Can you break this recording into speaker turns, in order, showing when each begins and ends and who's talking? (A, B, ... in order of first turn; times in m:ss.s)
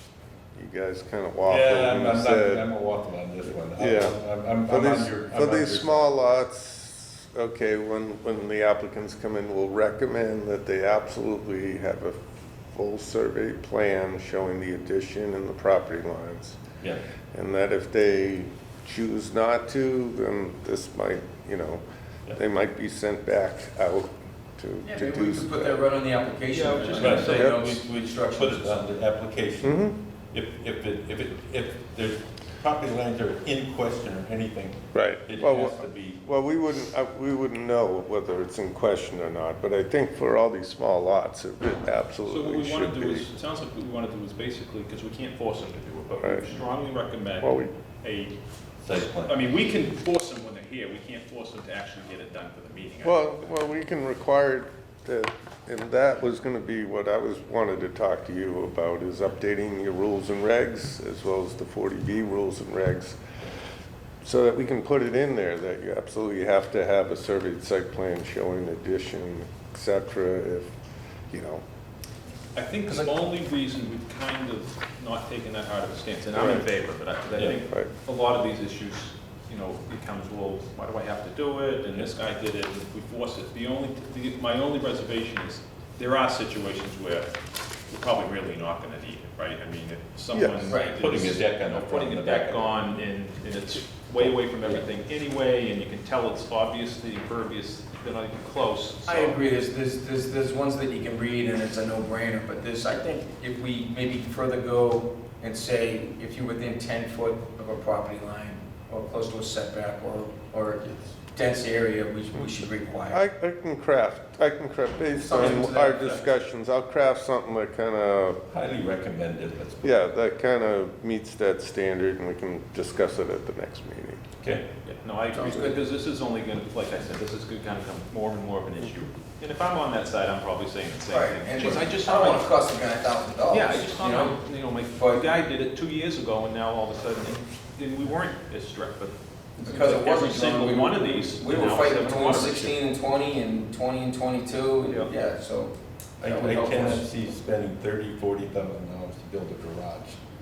0:00.6-0:02.7 A
0:01.5-0:06.1 B
0:03.7-0:16.6 A
0:17.3-0:25.8 A
0:24.8-0:28.8 C
0:26.5-0:27.7 D
0:27.0-0:36.2 B
0:29.6-0:30.0 A
0:34.9-0:43.3 A
0:42.3-0:48.4 D
0:46.2-0:46.6 A
0:47.4-0:47.7 A
0:48.8-0:49.4 B
0:49.1-0:53.2 D
0:53.0-1:03.2 A
1:04.2-1:10.7 A
1:11.3-1:11.6 A
1:12.6-1:39.4 D
1:16.3-1:16.6 A
1:30.3-1:30.8 A
1:30.7-1:31.0 C
1:30.8-1:32.8 B
1:39.1-1:53.2 C
1:53.1-1:58.4 A
1:55.2-1:56.0 C
1:55.5-1:56.2 B
1:58.5-2:00.0 B
1:59.8-2:04.3 A
2:04.4-2:12.5 D
2:05.3-2:05.7 C
2:11.1-2:15.3 C
2:13.5-2:22.8 D
2:19.6-2:27.0 C
2:24.9-2:25.1 D
2:26.2-2:30.2 B